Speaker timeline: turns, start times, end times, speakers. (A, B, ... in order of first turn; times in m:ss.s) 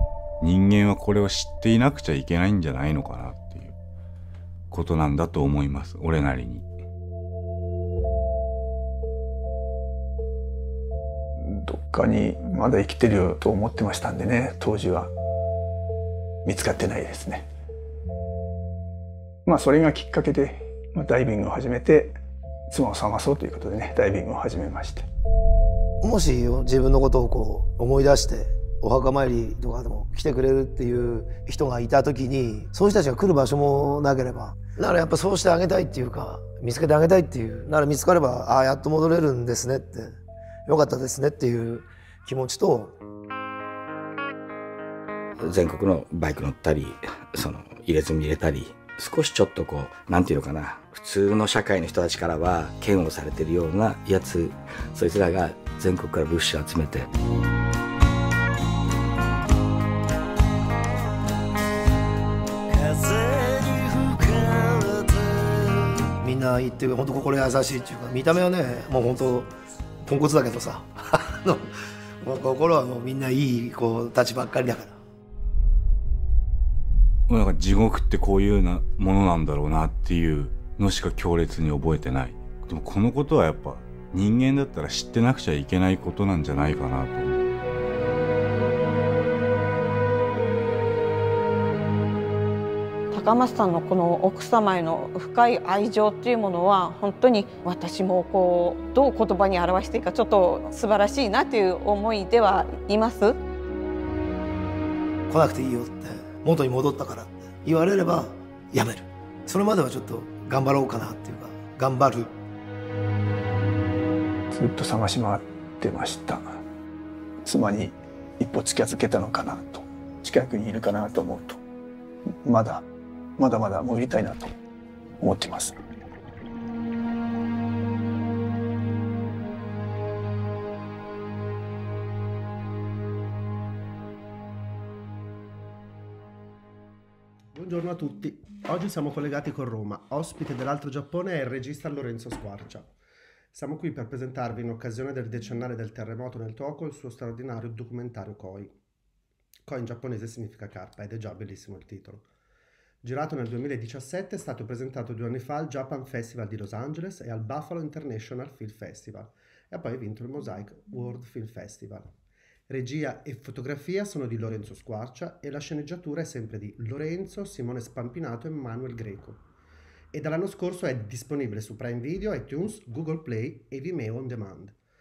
0:00.4-0:03.8 A
0:04.7-0:06.7 A
0:11.4-0:15.1 B
0:16.4-0:17.5 B
0:19.4-0:22.2 B
0:22.7-0:25.1 B
0:26.0-0:43.0 C
0:45.4-0:57.1 D
1:02.7-1:05.2 C
1:06.2-1:09.5 C
1:10.0-1:11.7 C
1:12.2-1:15.0 C
1:17.3-1:27.5 A
1:33.1-1:43.4 E
1:45.3-1:52.3 C
1:54.5-1:56.6 B
1:57.4-2:01.6 B
2:02.4-2:02.8 B
2:03.4-2:04.5 B
2:05.2-2:05.8 B
2:17.5-2:22.9 F
2:23.5-2:28.7 F
2:29.6-2:32.3 F
2:33.0-2:42.1 F
2:42.7-2:49.4 F
2:50.1-2:54.8 F